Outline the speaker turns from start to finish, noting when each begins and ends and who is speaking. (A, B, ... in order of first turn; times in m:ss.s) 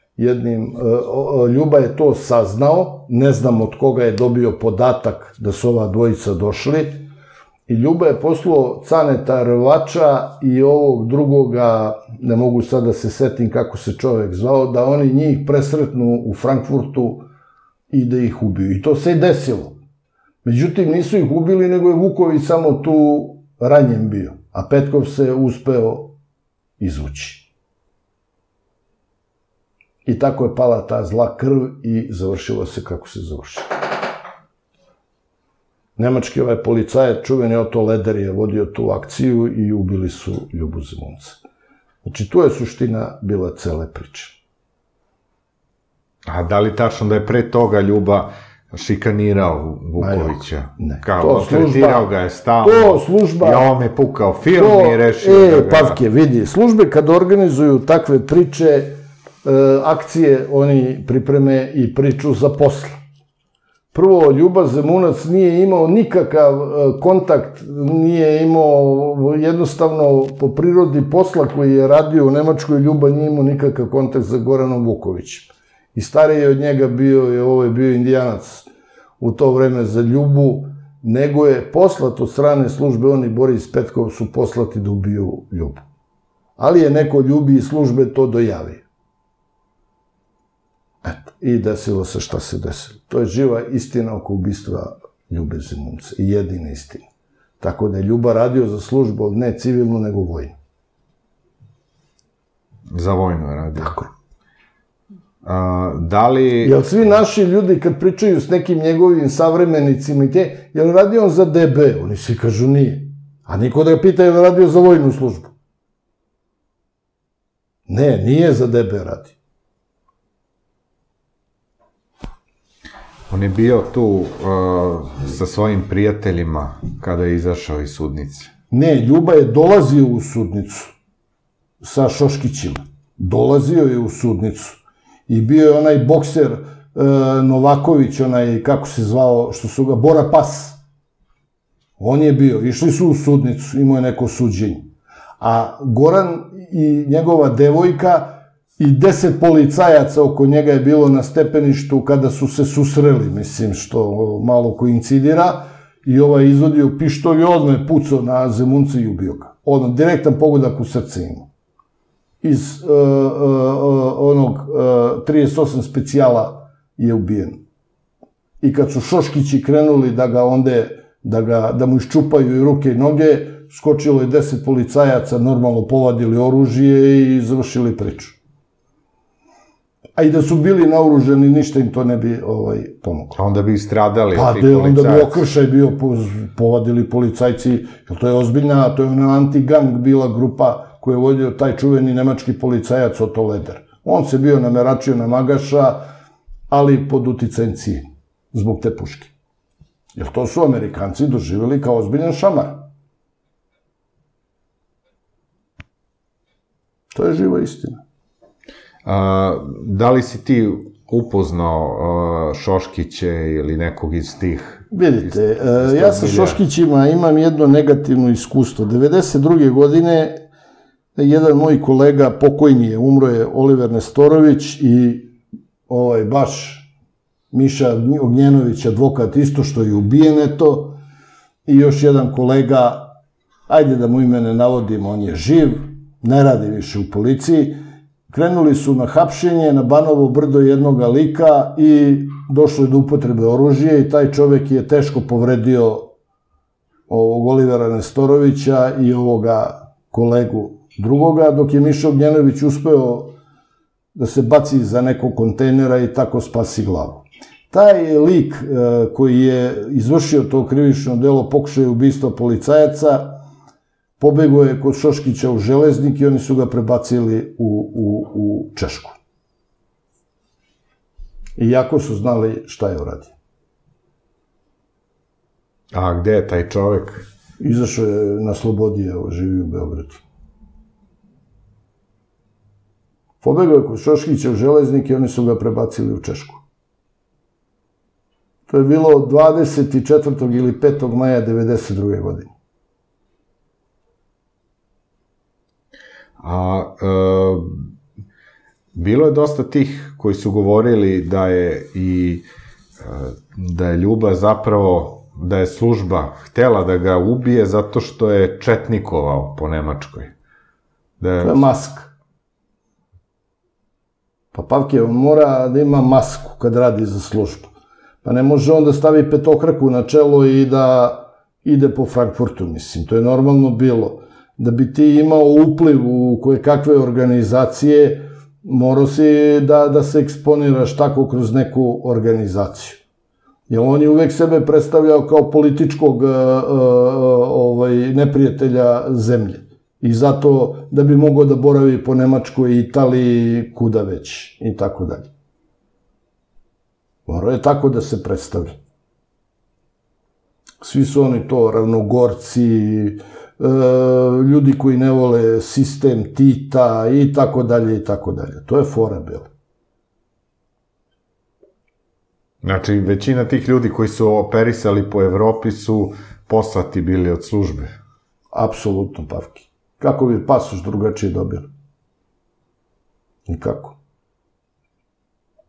0:00.2-0:07.1 A
0:07.7-0:17.2 A
0:17.9-0:19.8 A
0:20.4-0:26.2 A
0:26.8-0:27.5 A
0:30.0-0:33.7 A
0:36.0-0:41.4 A
0:42.0-0:44.4 A
0:46.3-0:56.0 B
0:50.0-0:53.7 A
0:54.5-1:03.0 A
1:03.9-1:18.7 A
1:19.2-1:25.8 A
1:26.6-1:28.8 A
1:31.0-1:37.1 A
1:37.6-1:40.6 A
1:42.9-1:44.0 B
1:43.8-1:44.1 A
1:45.4-1:46.8 B
1:46.6-1:55.5 A
1:57.9-1:59.3 A
2:03.3-2:08.5 B
2:08.7-2:10.9 A
2:11.8-2:20.8 A
2:22.0-2:41.5 A
2:42.4-2:47.6 A
2:48.6-2:58.4 A
3:00.2-3:03.4 A
3:03.3-3:05.4 B
3:04.3-3:16.0 A
3:16.7-3:19.3 A
3:20.2-3:22.9 A
3:27.1-3:28.0 A
3:29.0-3:36.6 B
3:34.9-3:40.4 A
3:41.2-3:45.3 A
3:45.9-3:46.9 A
3:47.5-3:51.0 A
3:51.7-3:53.1 A
3:53.7-4:06.1 A
4:07.1-4:13.3 A
4:14.2-4:23.4 A
4:24.2-4:29.2 A
4:31.6-4:33.3 A
4:35.9-4:37.2 B
4:37.6-4:40.2 A
4:43.4-4:46.6 A
4:48.7-4:52.5 A
4:56.4-4:57.8 B
4:58.9-5:02.4 B
5:03.0-5:10.3 B
5:11.2-5:11.6 B
5:11.4-5:12.1 A
5:14.5-5:17.7 A
5:18.2-5:33.0 A
5:33.7-5:45.3 A
5:47.3-5:48.8 A
5:50.8-5:59.5 A
6:02.6-6:07.9 B
6:08.5-6:11.7 A
6:13.5-6:14.0 A